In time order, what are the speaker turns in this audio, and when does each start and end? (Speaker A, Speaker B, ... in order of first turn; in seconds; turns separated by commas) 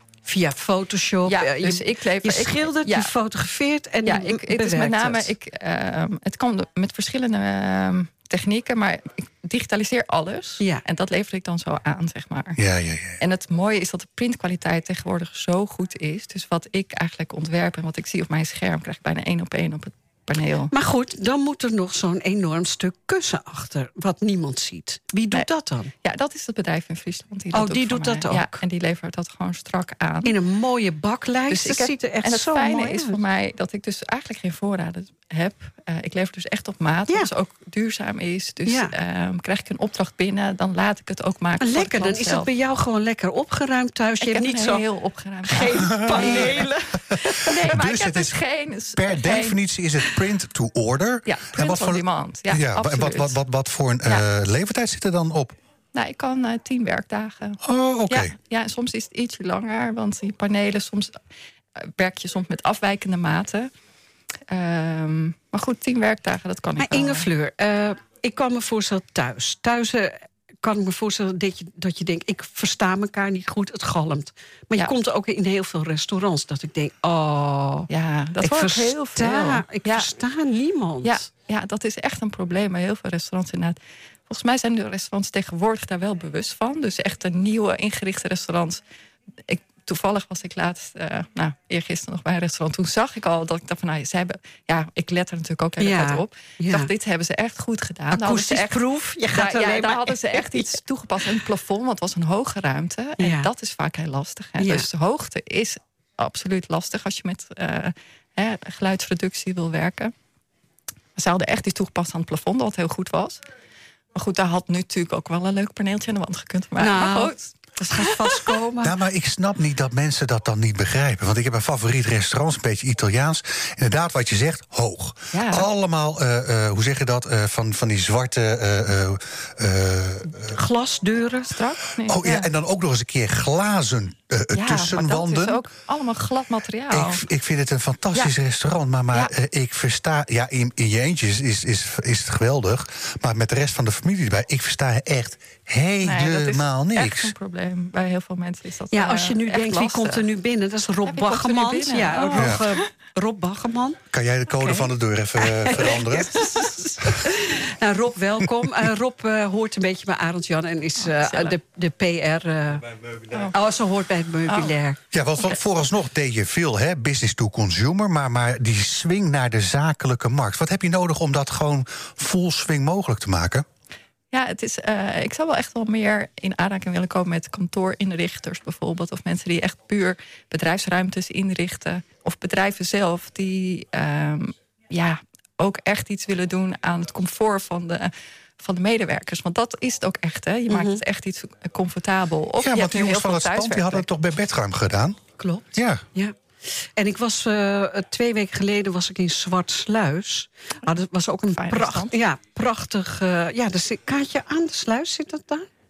Speaker A: 0.3-5.3, Speaker B: 1.3-3.1, Speaker B: 4.0-12.6, Speaker C: 12.6-13.2, Speaker B: 13.2-20.7, Speaker A: 20.7-25.9, Speaker B: 26.0-30.4, Speaker A: 27.5-28.6, Speaker A: 30.2-33.2, Speaker B: 31.5-42.5, Speaker A: 38.7-38.9, Speaker A: 41.6-44.9, Speaker B: 44.2-46.8, Speaker A: 45.5-47.6, Speaker C: 45.9-46.6, Speaker B: 47.4-49.6, Speaker C: 47.5-48.4, Speaker C: 48.9-55.6, Speaker B: 51.2-53.4, Speaker B: 55.9-61.1, Speaker C: 57.6-58.3, Speaker B: 61.8-63.7, Speaker B: 64.5-67.3, Speaker A: 66.8-77.9, Speaker B: 77.9-80.1, Speaker A: 78.4-81.2, Speaker B: 81.0-83.8, Speaker B: 84.3-88.8, Speaker B: 89.5-98.8, Speaker A: 95.8-96.9, Speaker A: 98.1-100.8, Speaker B: 99.3-110.1, Speaker A: 103.2-103.5, Speaker A: 104.6-104.9, Speaker B: 111.2-113.4, Speaker B: 114.2-118.5, Speaker A: 116.8-119.0, Speaker C: 118.8-130.6, Speaker B: 125.3-125.7, Speaker A: 130.5-131.8, Speaker B: 131.5-132.5, Speaker C: 132.1-135.6, Speaker B: 134.5-137.2, Speaker C: 136.9-147.3, Speaker B: 146.0-150.2, Speaker A: 148.9-154.0, Speaker B: 151.1-152.8, Speaker C: 152.4-152.6, Speaker C: 154.1-156.4, Speaker A: 154.6-163.0, Speaker B: 161.0-161.6, Speaker A: 163.5-165.0, Speaker B: 164.5-164.8, Speaker C: 165.1-173.7, Speaker B: 174.3-194.1, Speaker A: 190.7-191.0, Speaker C: 192.6-195.2, Speaker A: 195.4-205.7, Speaker C: 195.7-196.1, Speaker B: 201.5-202.1